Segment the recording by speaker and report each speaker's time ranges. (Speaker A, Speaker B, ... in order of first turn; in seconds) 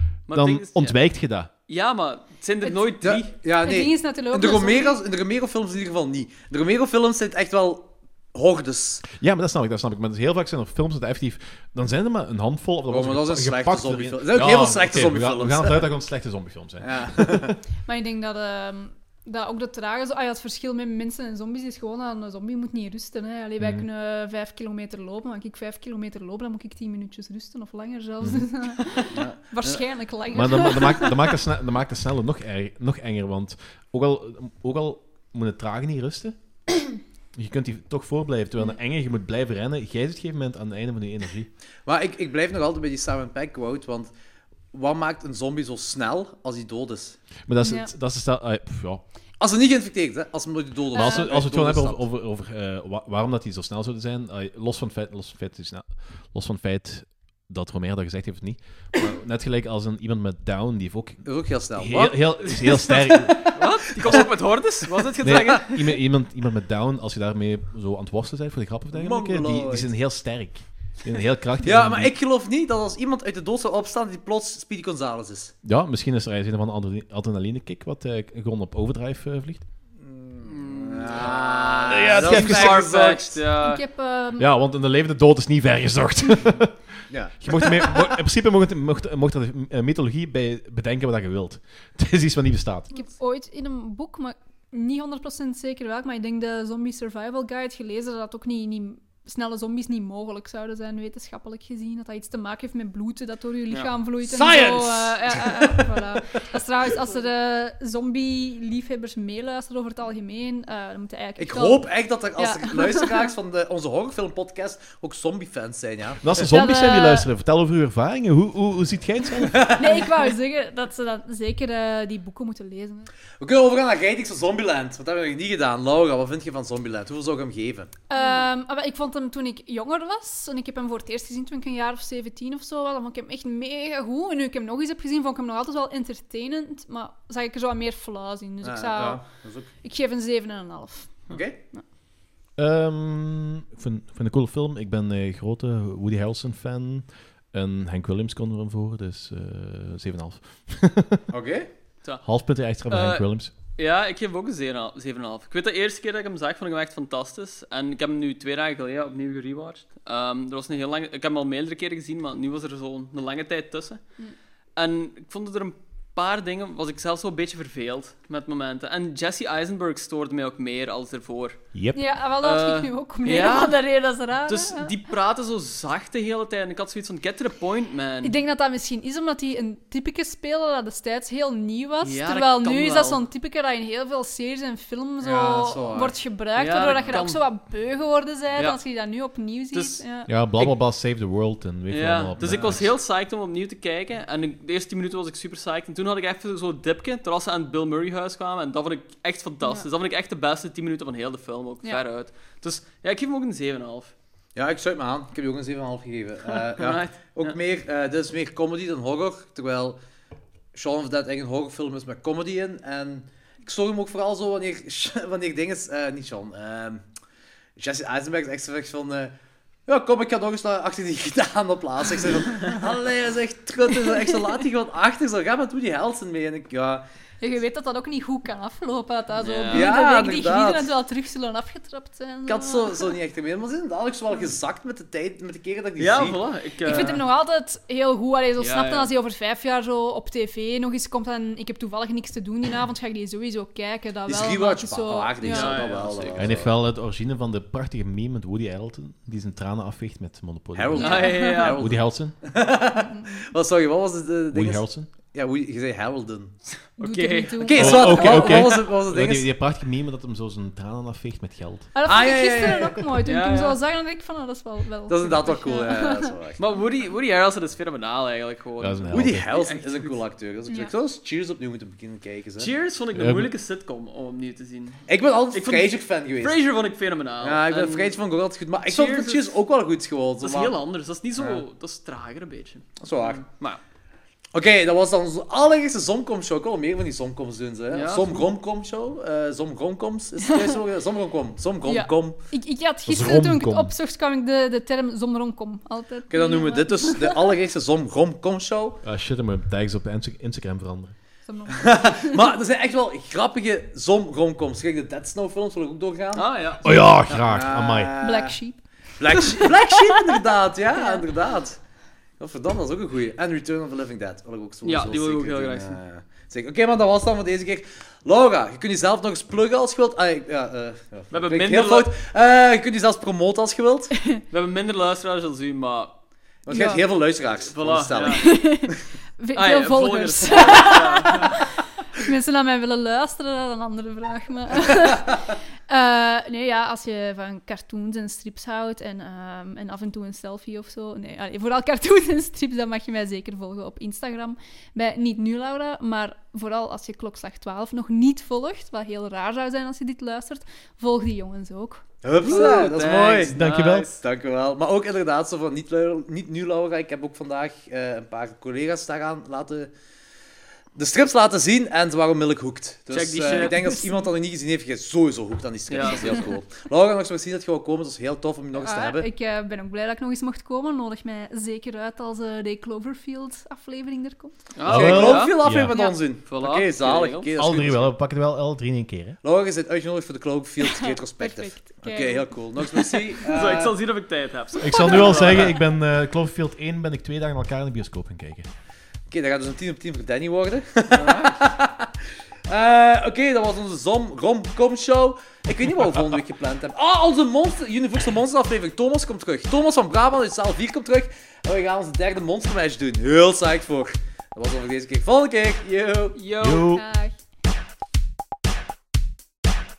Speaker A: 0.3-1.0, 1.7-3.3, 62.6-66.0, 80.4-83.8, 128.2-128.4, 152.9-164.0, 164.8-171.6, 172.4-178.3, 182.0-183.2, 186.6-187.4, 189.7-190.0, 191.9-204.1, 206.7-207.6, 229.4-229.9, 236.0-237.2, 238.6-239.1, 245.4-246.5, 250.9-251.8, 256.9-257.9, 263.2-263.8, 266.6-270.2, 272.6-278.2, 278.9-279.6, 280.4-283.8, 287.9-288.5, 306.3-307.5, 314.8-316.0, 321.3-322.1, 324.5-326.1, 327.7-328.4, 329.5-331.6, 352.4-354.2, 363.1-364.0, 365.9-366.5, 374.7-375.6, 376.4-377.5, 383.4-385.8, 391.1-391.6, 406.3-406.9
Speaker B: 0.3-1.5, 9.1-17.6, 23.6-23.9, 28.2-28.5, 30.3-41.5, 47.5-49.0, 50.9-64.2, 65.2-72.1, 75.6-79.6, 81.9-83.0, 84.4-92.9, 116.2-119.9, 142.6-151.3, 152.2-153.5, 171.7-172.0, 190.3-192.8, 246.3-252.3, 254.5-255.1, 257.7-261.9, 268.8-269.5, 273.1-273.5, 293.1-293.9, 299.0-301.1, 306.8-308.1, 353.5-354.1, 374.8-376.0, 377.6-379.4, 384.8-388.7, 396.1-396.4, 406.6-407.0
Speaker C: 2.6-5.0, 17.8-31.3, 47.6-47.9, 50.9-51.3, 83.6-84.5, 92.9-113.3, 116.4-117.3, 119.7-123.1, 128.1-139.2, 139.8-141.8, 171.9-174.9, 178.2-190.3, 199.6-199.9, 227.4-233.2, 236.8-245.8, 251.0-251.7, 252.9-253.5, 257.0-258.7, 261.9-266.3, 291.8-297.4, 301.4-302.4, 308.2-309.7, 310.9-311.2, 326.7-327.0, 328.3-352.0, 363.5-364.3, 368.8-374.6, 380.8-383.2, 406.8-407.4
Speaker D: 3.0-9.0, 12.9-15.9, 16.8-17.6, 29.1-29.4, 41.9-44.1, 44.7-47.2, 49.4-52.0, 61.2-63.5, 68.9-69.9, 71.6-75.5, 80.0-83.4, 87.1-88.1, 104.2-106.5, 111.4-116.4, 119.4-120.0, 123.4-127.9, 138.6-139.7, 141.3-141.6, 151.3-151.7, 185.2-186.1, 192.4-192.8, 204.6-210.0, 210.7-217.0, 217.8-219.3, 219.9-227.0, 229.7-230.9, 232.5-237.2, 244.3-246.7, 250.7-256.6, 257.6-259.5, 262.1-263.0, 265.1-266.6, 269.1-272.7, 275.1-276.6, 277.4-280.7, 283.0-283.4, 284.5-292.4, 296.3-299.0, 301.7-306.5, 307.5-308.6, 309.2-311.8, 312.4-324.3, 326.6-328.6, 352.2-353.6, 354.2-359.9, 360.9-369.3, 374.9-378.1, 379.4-383.9, 389.3-392.1, 392.7-406.4